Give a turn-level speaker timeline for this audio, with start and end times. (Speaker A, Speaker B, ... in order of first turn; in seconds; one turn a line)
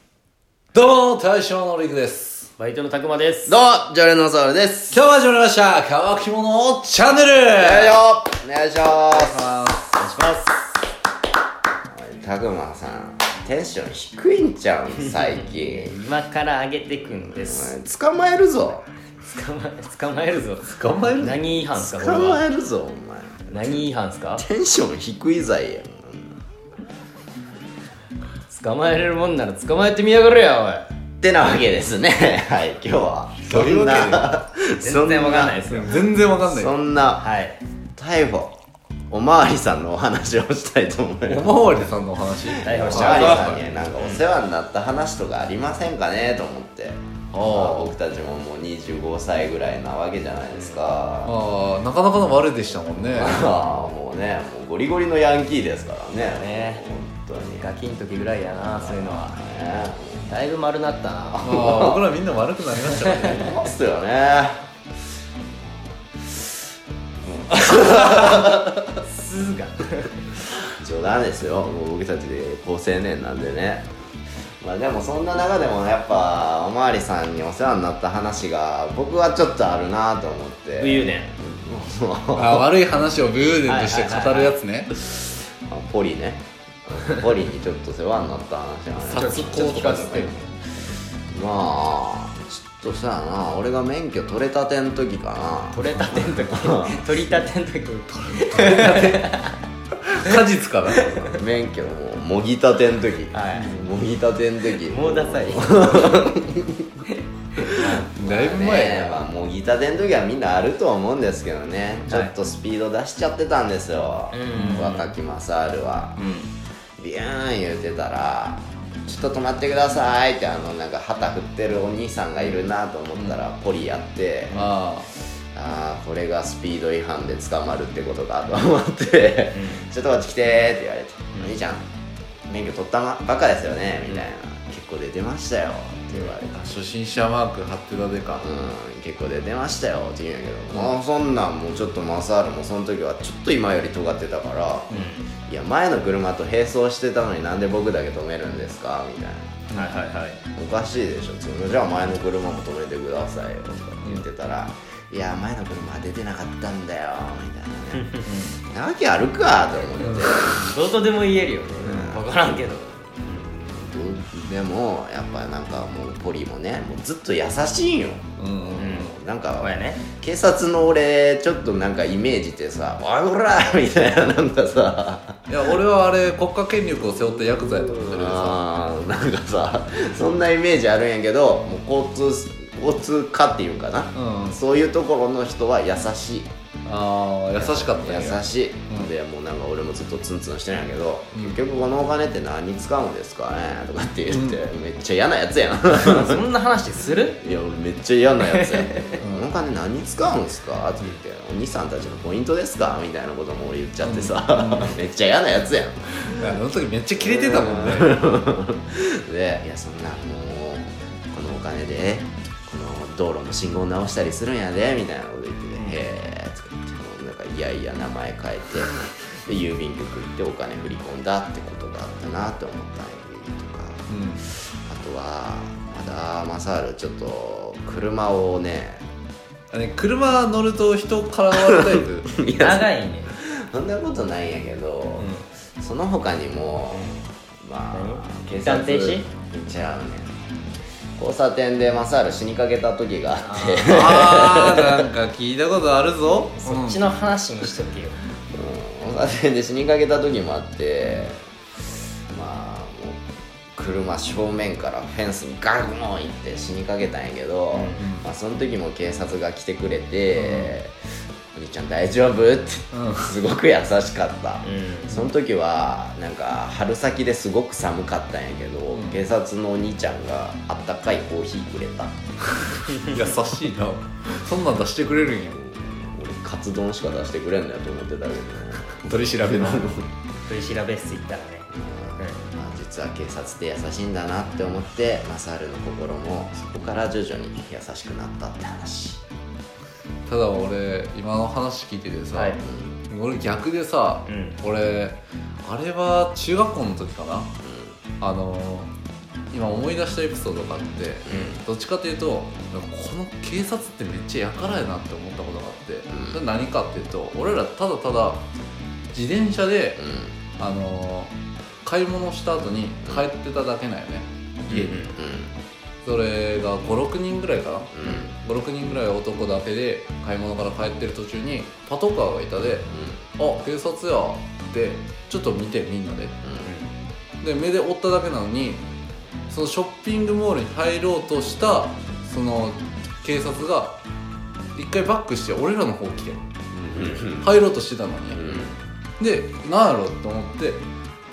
Speaker A: 0.7-2.5
Speaker B: 2.6-3.6
Speaker C: 3.5-5.0
Speaker A: 4.9-8.0
Speaker C: 7.5-9.6
Speaker A: 9.1-10.0
Speaker B: 9.9-10.7
Speaker C: 11.9-16.0
Speaker B: 15.7-17.8
Speaker C: 17.2-18.9
Speaker B: 19.3-22.4
Speaker A: 20.6-21.4
Speaker C: 21.8-23.8
Speaker B: 23.5-24.4
Speaker C: 24.4-26.4
Speaker B: 28.5-30.9
Speaker C: 31.2-35.6
Speaker A: 33.5-34.3
Speaker B: 34.8-36.0
Speaker A: 35.7-36.8
Speaker C: 36.4-37.3
Speaker B: 37.2-37.6
Speaker C: 38.0-38.5
Speaker C: 39.1-41.5
Speaker A: 41.3-43.6
Speaker C: 42.6-51.3
Speaker B: 42.6-44.2
Speaker A: 47.3-47.9
Speaker B: 50.5-50.9
Speaker A: 51.2-53.5
Speaker C: 53.1-57.7
Speaker B: 56.4-56.8
Speaker B: 57.6-59.4
Speaker C: 58.8-60.3
Speaker B: 60.3-61.5
Speaker C: 61.3-62.0
Speaker A: 61.4-63.5
Speaker C: 63.2-64.7
Speaker C: 67.2-68.7
Speaker B: 69.0-70.2
Speaker C: 70.8-73.9
Speaker C: 74.6-82.7
Speaker B: 80.8-81.3
Speaker A: 82.3-84.9
Speaker B: 83.6-84.6
Speaker C: 85.6-90.5
Speaker A: 89.0-90.3
Speaker B: 89.1-90.3
Speaker C: 91.3-97.0
Speaker B: 95.7-99.6
Speaker A: 98.2-99.3
Speaker A: 100.1-101.1
Speaker C: 101.0-106.9
Speaker B: 103.3-103.9
Speaker B: 104.8-106.2
Speaker C: 107.6-116.2
Speaker B: 107.6-108.1
Speaker A: 108.0-109.3
Speaker B: 112.1-112.3
Speaker B: 114.3-115.2
Speaker A: 114.5-115.0
Speaker B: 116.2-116.5
Speaker C: 117.0-124.7
Speaker A: 124.5-125.1
Speaker C: 125.5-131.9
Speaker B: 129.5-129.9
Speaker C: 132.5-136.7
Speaker B: 136.1-136.4
Speaker A: 136.5-138.5
Speaker C: 138.4-149.6
Speaker B: 144.9-145.3
Speaker B: 149.7-150.4
Speaker C: 150.6-160.6
Speaker B: 158.0-158.5
Speaker B: 159.8-163.4
Speaker C: 161.8-162.6
Speaker C: 163.2-175.4
Speaker A: 168.4-169.0
Speaker B: 168.8-170.0
Speaker A: 175.5-178.6
Speaker C: 177.5-186.5
Speaker A: 184.2-184.6
Speaker A: 186.9-189.1
Speaker C: 187.6-196.4
Speaker A: 191.3-191.6
Speaker A: 194.3-194.6
Speaker B: 196.0-197.4
Speaker C: 197.3-206.6
Speaker B: 198.5-199.2
Speaker A: 199.2-199.5
Speaker A: 204.0-205.0
Speaker A: 206.3-208.3
Speaker C: 207.2-229.0
Speaker A: 224.1-224.4
Speaker A: 229.7-232.3
Speaker C: 231.5-240.3
Speaker B: 232.6-233.3
Speaker B: 235.2-235.5
Speaker B: 236.9-237.2
Speaker B: 237.9-239.3
Speaker C: 241.2-245.1
Speaker B: 243.4-244.0
Speaker A: 243.9-247.0
Speaker B: 246.6-248.2
Speaker C: 248.5-251.4
Speaker C: 252.3-253.2
Speaker C: 253.8-260.9
Speaker B: 257.7-258.1
Speaker A: 258.0-258.3
Speaker A: 260.4-260.7
Speaker C: 261.5-272.1
Speaker A: 262.9-263.4
Speaker B: 264.6-265.3
Speaker A: 268.9-269.2
Speaker A: 272.8-275.6
Speaker C: 275.6-280.1
Speaker A: 279.1-279.9
Speaker B: 280.5-281.7
Speaker C: 281.7-289.2
Speaker A: 290.3-297.5
Speaker B: 292.3-292.6
Speaker C: 292.6-293.0
Speaker B: 294.3-294.6
Speaker C: 297.6-298.0
Speaker A: 298.2-298.9
Speaker A: 299.5-308.4
Speaker C: 301.3-301.6
Speaker B: 301.3-301.6
Speaker C: 306.1-306.4
Speaker A: 309.1-310.0
Speaker C: 310.0-310.4
Speaker A: 310.6-311.3
Speaker A: 311.9-315.0
Speaker B: 314.7-315.2
Speaker C: 314.7-315.6
Speaker A: 316.0-326.4
Speaker C: 317.9-318.3
Speaker C: 322.9-323.2
Speaker C: 326.4-326.7
Speaker B: 326.6-326.9
Speaker A: 327.4-328.8
Speaker A: 329.5-334.0
Speaker A: 334.8-336.4
Speaker C: 336.7-337.5
Speaker A: 337.2-338.4
Speaker C: 338.3-338.7
Speaker B: 338.4-338.8
Speaker A: 339.2-340.8